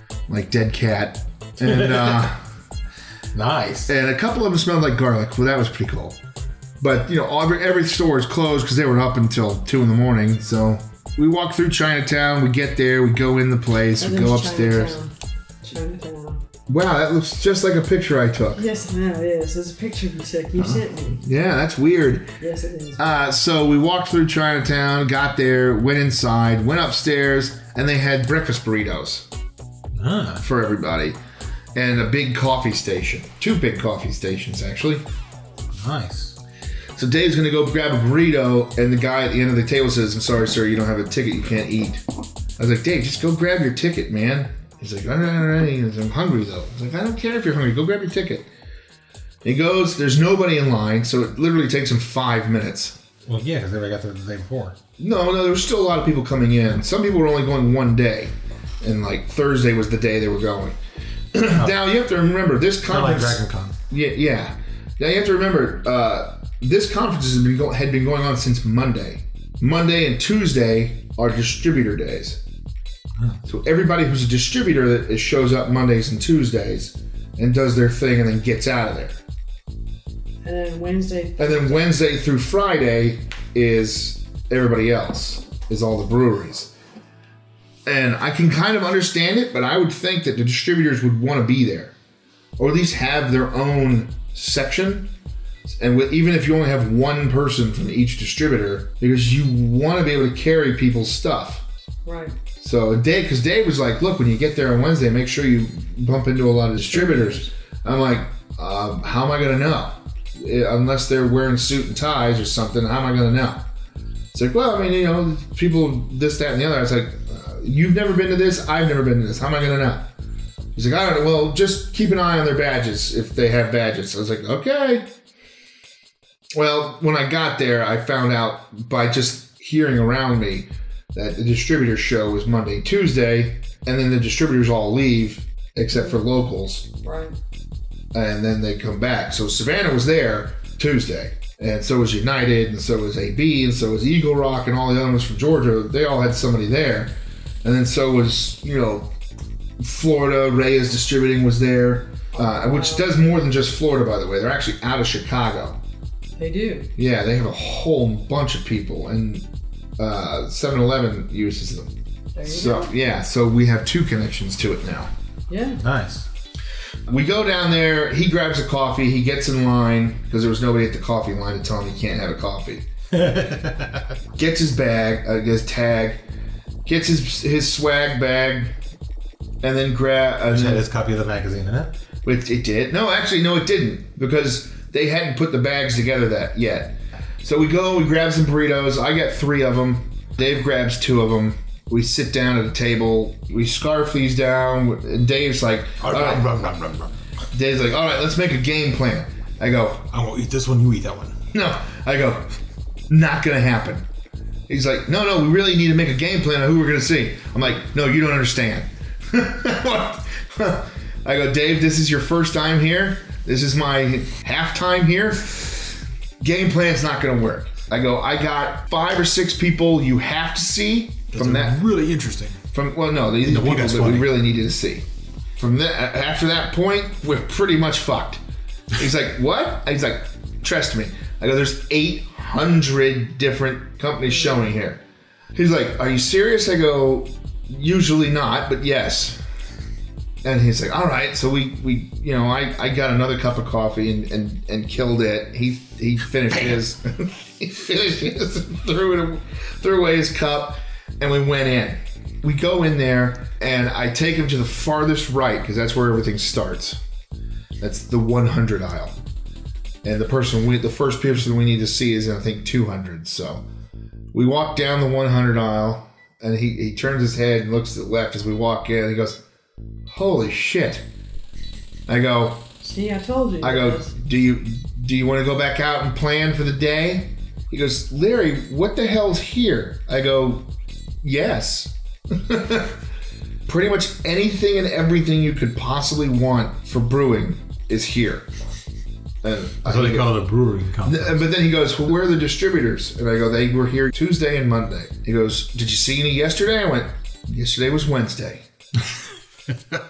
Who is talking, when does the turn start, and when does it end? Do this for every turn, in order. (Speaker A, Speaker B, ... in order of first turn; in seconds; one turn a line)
Speaker A: 0.3-2.4
Speaker B: 1.6-2.3
Speaker B: 3.3-3.9
Speaker A: 3.9-6.2
Speaker A: 6.8-15.0
Speaker C: 14.0-15.1
Speaker C: 15.6-16.4
Speaker A: 16.7-18.6
Speaker C: 18.6-21.2
Speaker A: 21.2-22.3
Speaker C: 22.4-23.2
Speaker A: 23.0-29.3
Speaker B: 30.0-30.4
Speaker A: 30.4-31.2
Speaker A: 31.8-35.0
Speaker B: 35.8-36.4
Speaker A: 37.0-42.0
Speaker A: 42.6-48.5
Speaker A: 49.4-53.0
Speaker B: 53.3-54.8
Speaker A: 55.0-60.8
Speaker A: 61.3-72.4
Speaker B: 62.9-63.8
Speaker A: 73.5-79.2
Speaker C: 80.4-81.9
Speaker A: 81.4-86.7
Speaker A: 87.9-91.9
Speaker A: 92.6-95.1
Speaker A: 95.7-101.6
Speaker C: 102.0-102.4
Speaker A: 102.6-113.7
Speaker C: 106.9-107.5
Speaker A: 114.3-120.1
Speaker A: 120.8-125.1
Speaker A: 126.5-136.9
Speaker C: 137.0-137.4
Speaker A: 138.1-149.1
Speaker A: 149.8-155.8
Speaker C: 152.3-153.2
Speaker C: 156.4-156.9
Speaker A: 157.0-159.5
Speaker A: 160.0-161.9
Speaker C: 162.3-162.9
Speaker A: 162.5-165.1
Speaker C: 165.5-165.8
Speaker B: 165.8-166.3
Speaker A: 167.1-172.9
Speaker B: 173.1-174.1
Speaker A: 174.4-176.2
Speaker A: 176.8-178.7
Speaker A: 179.6-180.9
Speaker B: 180.5-181.9
Speaker A: 182.2-196.5
Speaker B: 196.0-197.1
Speaker A: 197.5-200.1
Speaker B: 200.1-201.4
Speaker A: 201.5-202.5
Speaker A: 203.1-204.1
Speaker A: 204.7-221.8
Speaker B: 221.3-222.6
Speaker A: 222.7-225.1
Speaker B: 223.4-224.4
Speaker A: 225.6-228.4
Speaker A: 228.9-235.0
Speaker A: 235.5-239.4
Speaker A: 240.4-257.0
Speaker A: 257.8-259.1
Speaker A: 260.0-263.6
Speaker A: 264.3-269.4
Speaker A: 270.1-271.1
Speaker A: 272.1-272.6
Speaker C: 272.8-274.1
Speaker A: 273.6-280.7
Speaker A: 281.2-283.0
Speaker A: 283.7-288.5
Speaker A: 289.4-290.4
Speaker B: 289.9-291.5
Speaker A: 291.0-298.6